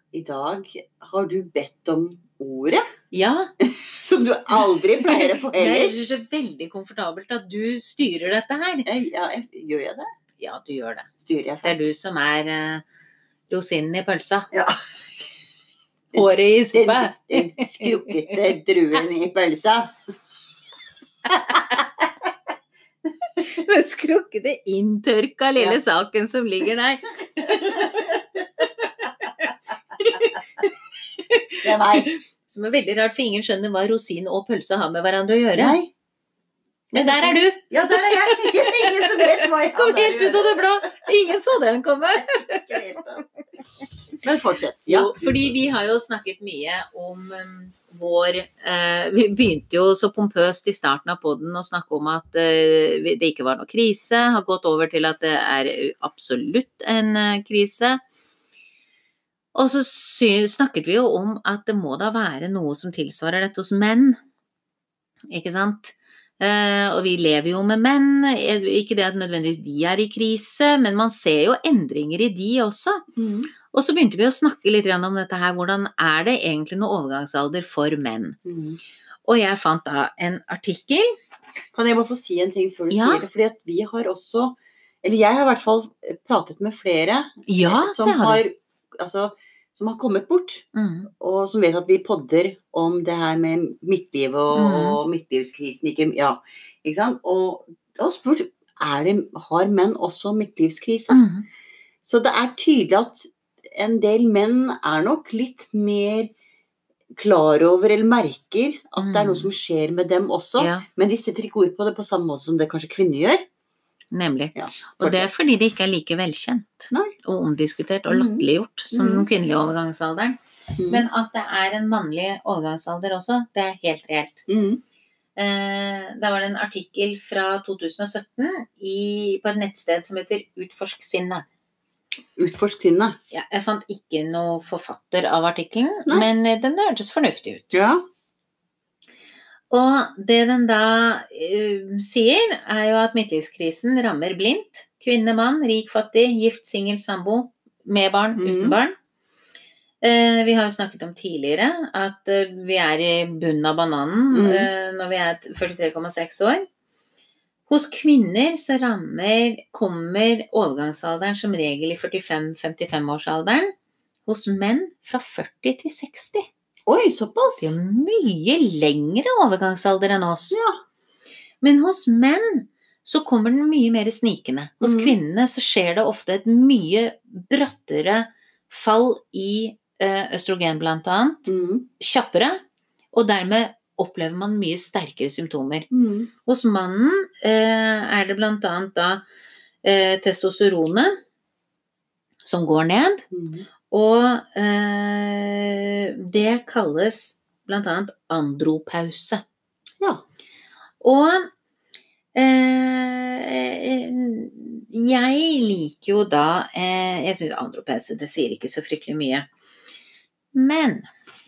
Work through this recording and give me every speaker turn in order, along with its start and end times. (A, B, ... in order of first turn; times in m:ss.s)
0:00.1-0:02.8 A
0:03.1-0:03.5 B
0:03.6-0:06.2 A
0:05.0-0:08.9 B
0:08.8-0:10.1 A
0:10.4-0:11.1 B
0:11.2-0:11.9 A
0:11.6-0:12.8 B
0:13.5-0:14.5 B
0:14.5-0:14.8 A
0:16.1-0:19.9 A
0:16.1-0:18.4 B
0:21.3-0:22.1 A
0:23.4-0:30.7 B
0:27.5-0:28.1 A
0:31.2-0:35.8 B
0:31.6-0:32.1 A
0:35.6-0:35.9 A
0:36.9-0:41.1 A
0:36.9-0:42.8 B
0:42.2-0:43.2 A
0:44.2-0:45.5 A
0:44.9-0:58.0 B
0:59.5-1:04.2 B
1:05.3-1:13.0 B
1:13.2-1:13.5 A
1:13.7-1:18.4 B
1:18.4-1:18.8 A
1:19.2-1:21.1 B
1:21.7-1:41.2 A
1:22.9-1:23.2 B
1:27.5-1:28.4 B
1:30.7-1:31.1 B
1:34.5-1:35.0 B
1:41.1-1:41.4 B
1:42.0-1:46.3 A
1:47.2-1:53.4 A
1:49.0-1:49.5 B
1:50.6-1:50.8 B
1:54.1-2:04.4 B
1:54.5-1:55.3 A
1:58.1-1:59.3 A
2:00.8-2:01.0 A
2:04.5-2:04.8 A
2:05.4-2:11.4 B
2:12.4-2:13.2 A
2:13.3-2:17.8 B
2:17.7-2:18.0 A
2:19.7-2:28.9 B
2:28.4-2:28.8 A
2:30.0-2:36.6 B
2:34.3-2:34.7 A
2:37.7-2:43.7 B
2:44.2-2:46.5 B
2:46.9-2:47.7 A
2:47.6-2:50.6 B
2:50.5-2:50.8 A
2:51.6-3:01.5 B
2:54.8-2:55.2 A
3:01.5-3:01.9 A
3:02.0-3:02.6 B
3:03.1-3:05.9 B
3:05.9-3:06.3 A
3:06.4-3:09.2 B
3:09.8-3:11.2 B
3:12.4-3:13.2 B
3:13.3-3:13.6 A
3:13.9-3:19.4 B
3:21.0-3:21.5 B
3:22.3-3:29.5 B
3:30.5-3:31.1 B